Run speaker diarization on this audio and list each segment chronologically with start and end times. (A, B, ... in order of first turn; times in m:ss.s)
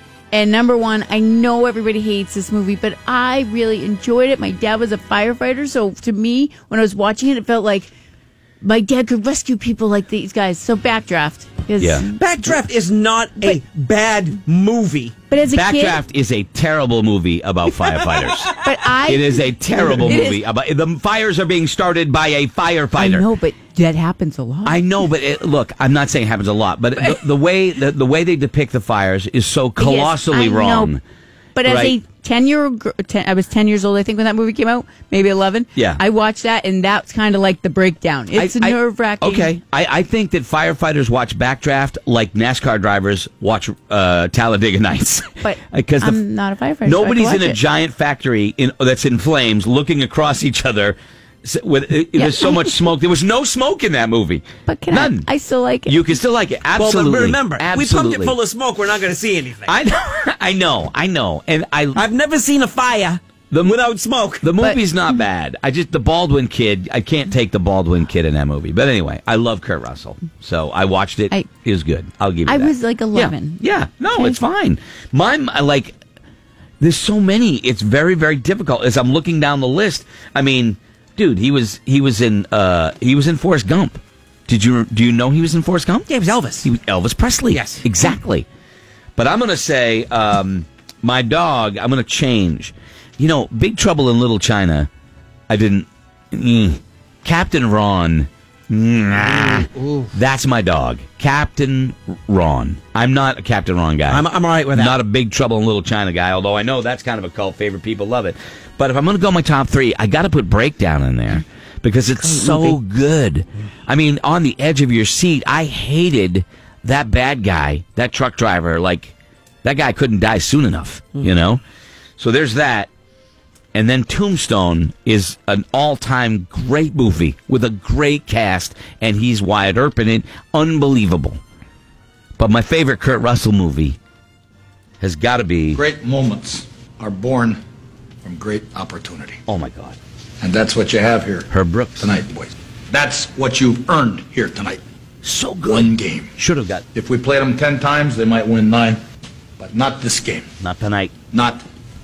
0:00.3-0:07.9 A
0:08.6-0:12.1 A
0:11.8-0:12.1 B
0:12.1-0:15.2 C
0:15.3-0:16.0 A
0:15.5-0:23.3 B
0:18.7-0:20.4 A
0:23.0-0:24.8 A
0:24.6-0:31.0 B
0:29.8-0:30.9 A
0:31.6-0:39.6 A
0:31.6-0:32.0 B
0:35.8-0:36.0 B
0:38.4-0:46.2 B
0:45.4-0:47.6 A
0:46.8-0:55.3 B
0:52.2-0:52.8 A
0:54.7-0:55.9 A
0:55.9-0:58.4 B
0:56.8-0:59.7 C
0:59.6-1:02.0 B
1:02.0-1:04.5 C
1:04.4-1:16.0 B
1:12.5-1:13.6 A
1:16.8-1:26.1 B
1:26.1-1:26.7 C
1:26.6-1:28.5 B
1:27.5-1:27.8 C
1:29.2-1:34.9 B
1:35.5-2:01.6 B
1:39.5-1:40.0 C
1:44.1-1:45.0 C
1:52.4-1:52.8 A
2:02.2-2:02.9 B
2:03.7-2:11.4 B
2:12.4-2:14.0 B
2:15.0-2:15.8 B
2:15.7-2:17.6 D
2:18.2-2:19.4 D
2:19.5-2:20.0 B
2:20.4-2:21.5 D
2:21.5-2:22.1 B
2:22.0-2:24.8 D
2:25.2-2:26.8 B
2:25.7-2:26.4 D
2:26.9-2:29.0 D
2:29.6-2:30.5 D
2:30.6-2:31.1 B
2:31.3-2:31.6 D